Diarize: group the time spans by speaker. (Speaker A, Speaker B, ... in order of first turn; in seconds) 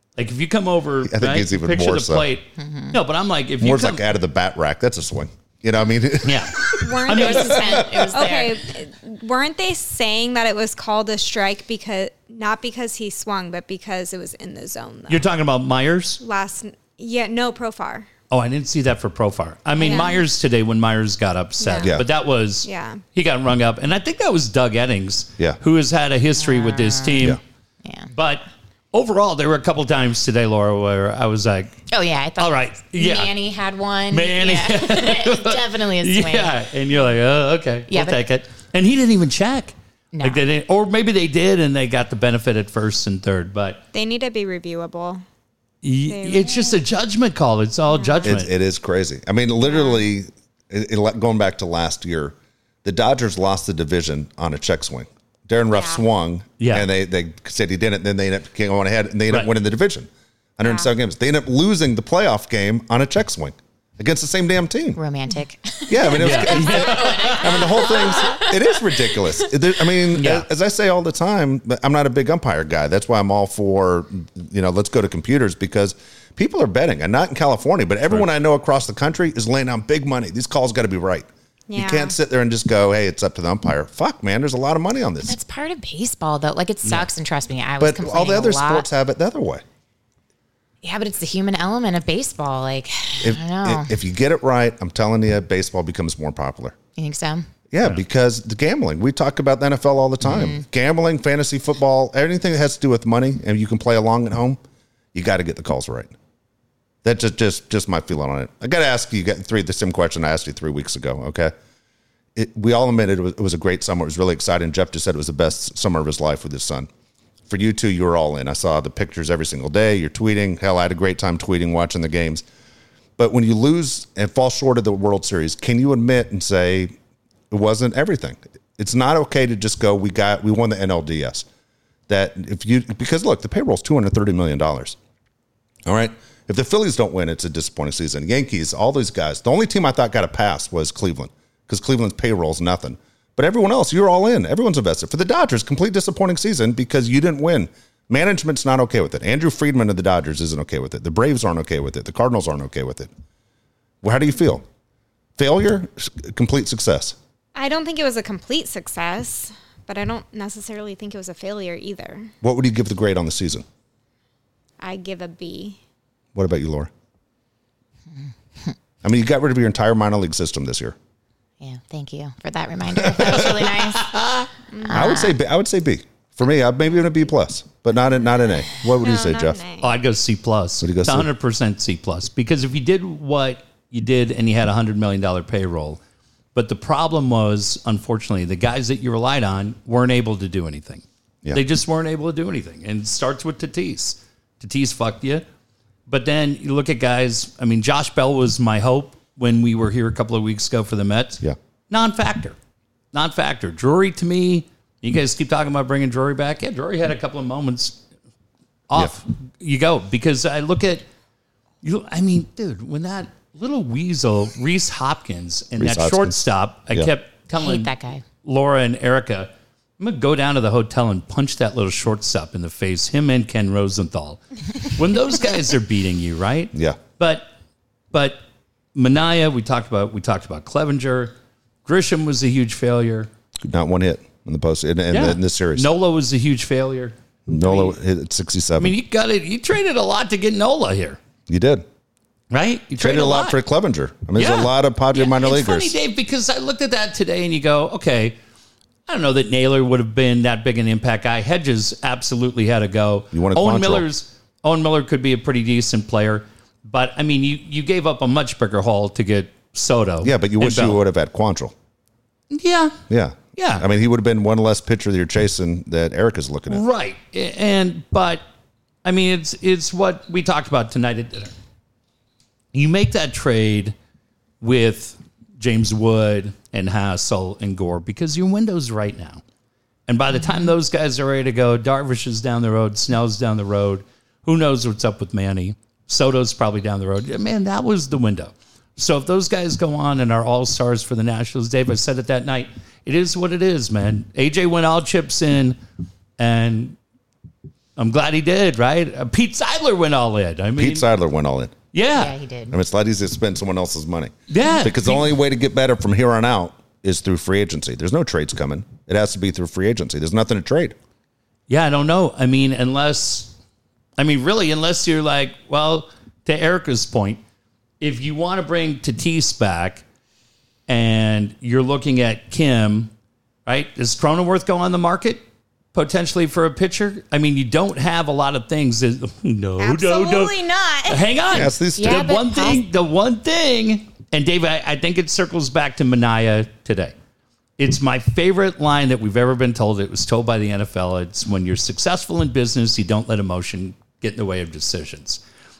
Speaker A: 0.1-4.0, 6.2-7.6, 15.1-16.2, 18.3-27.4, 28.1-31.8, 32.4-33.3, 34.1-43.8, 45.8-48.5, 56.6-56.9, 66.2-67.9, 70.1-70.5, 173.3-174.5, 179.8-186.0, 186.5-195.4, 196.1-202.6, 203.1-208.0, 208.9-211.1, 211.8-217.9, 218.4-227.5, 228.1-228.4, 228.9-231.3, 231.8-233.3, 235.1-237.9, 238.8-241.2, 242.5-243.6, 244.3-248.3, 249.1-261.0, 262.5-263.0, 263.6-263.8, 266.7-268.4, 269.0-271.5, 272.7-273.9, 274.6-279.4, 280.1-295.8, 296.4-296.9, 298.0-301.1, 301.9-302.3, 304.5-305.3, 311.7-313.5, 314.2-317.4, 318.0-320.0, 320.9-323.1, 323.6-325.4, 325.9-337.1, 337.8-345.4
Speaker B: 1.0-2.3, 3.6-8.1, 21.8-22.1, 48.2-65.0, 65.9-85.3, 87.8-89.6, 93.2-96.8, 97.7-104.6, 105.1-106.1, 107.0-111.5, 112.3-116.9, 117.5-122.4, 123.2-126.9, 127.5-131.4, 132.1-135.0, 135.8-153.1, 154.0-154.6, 155.4-157.2, 162.4-163.6, 166.3-166.9, 169.0-170.9, 173.0-173.5, 174.9-179.6, 180.8-181.3, 215.8-216.3, 226.7-227.0, 233.6-235.9, 237.5-238.9, 241.5-241.8, 243.0-245.9, 253.3-254.1, 260.2-261.7, 263.1-266.8, 300.8-301.8, 302.7-310.9, 331.5-332.3
Speaker C: 2.6-3.0, 7.1-8.6, 26.4-28.1, 31.9-36.5, 37.9-38.2, 40.1-40.4, 65.0-68.8, 85.2-88.9, 90.8-93.9, 97.0-97.5, 100.2-100.6, 171.6-174.1, 174.8-175.3, 217.6-218.2, 302.1-302.8, 331.9-332.8
Speaker D: 6.8-15.3, 16.2-18.1, 19.8-20.2, 21.6-21.9, 22.6-23.0, 43.9-45.2, 46.1-46.8, 47.9-48.3, 55.7-56.0, 81.7-82.1, 157.5-162.3, 164.8-165.8, 174.7-175.1, 179.0-179.9, 329.8-331.3